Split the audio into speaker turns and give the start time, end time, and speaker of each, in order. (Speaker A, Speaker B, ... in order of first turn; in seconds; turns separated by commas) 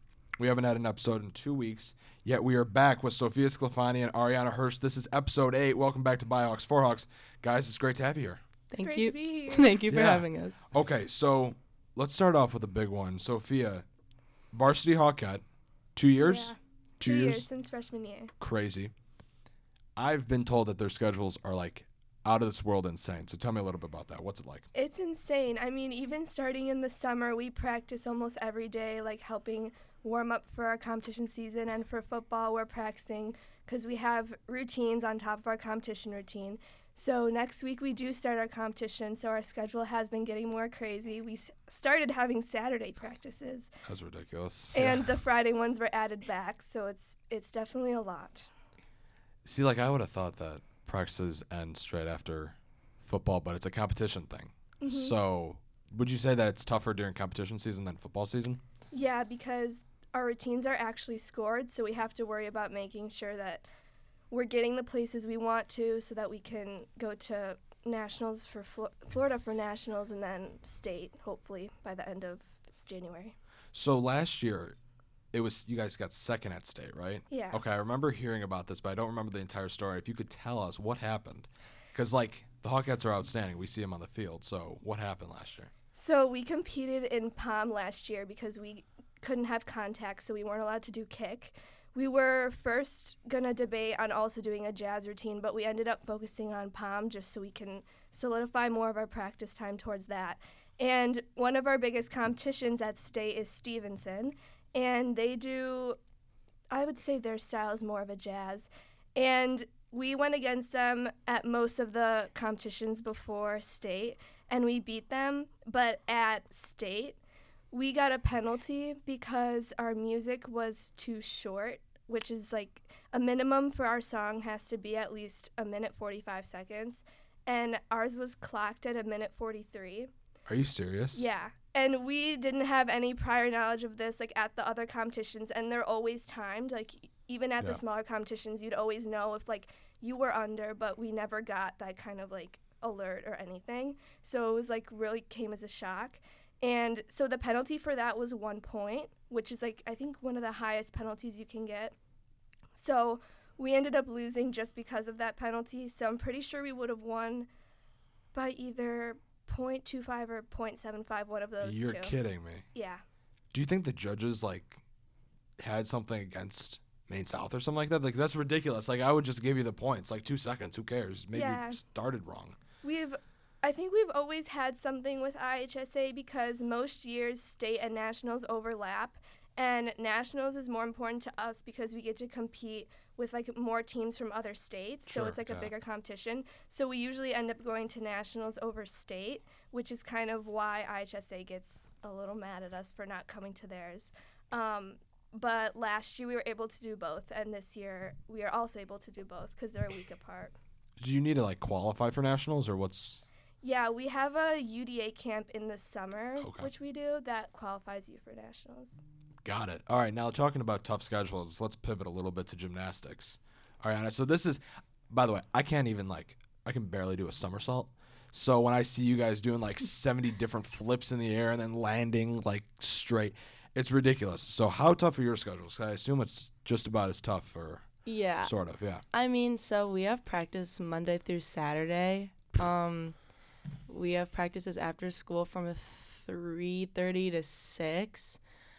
Speaker A: 0.4-8.4, Speaker B: 8.7-10.6, Speaker C: 8.7-9.8, Speaker A: 9.9-13.8, Speaker A: 14.5-15.4, Speaker A: 15.9-17.4, Speaker C: 16.2-18.3, Speaker A: 18.4-18.9, Speaker A: 19.9-24.6, Speaker C: 24.7-43.7, Speaker A: 43.8-45.0, Speaker C: 44.7-48.5, Speaker A: 49.4-58.6, Speaker C: 54.8-55.1, Speaker C: 58.9-63.6, Speaker C: 64.3-73.3, Speaker A: 73.7-74.8, Speaker A: 75.3-85.7, Speaker C: 77.3-77.6, Speaker C: 85.9-106.0, Speaker C: 106.7-117.2, Speaker C: 117.7-130.1, Speaker A: 130.5-131.3, Speaker C: 131.1-151.9, Speaker C: 152.7-157.5, Speaker C: 158.3-162.2, Speaker A: 161.6-162.6, Speaker C: 162.7-163.0, Speaker A: 163.5-164.8, Speaker A: 165.6-172.6, Speaker C: 171.3-171.8, Speaker C: 172.8-200.5, Speaker A: 185.1-185.7, Speaker A: 201.0-203.2, Speaker C: 203.6-209.0, Speaker A: 206.4-206.7, Speaker A: 209.4-227.8, Speaker B: 228.0-228.5, Speaker A: 228.4-229.0, Speaker B: 229.1-233.1, Speaker B: 233.9-238.4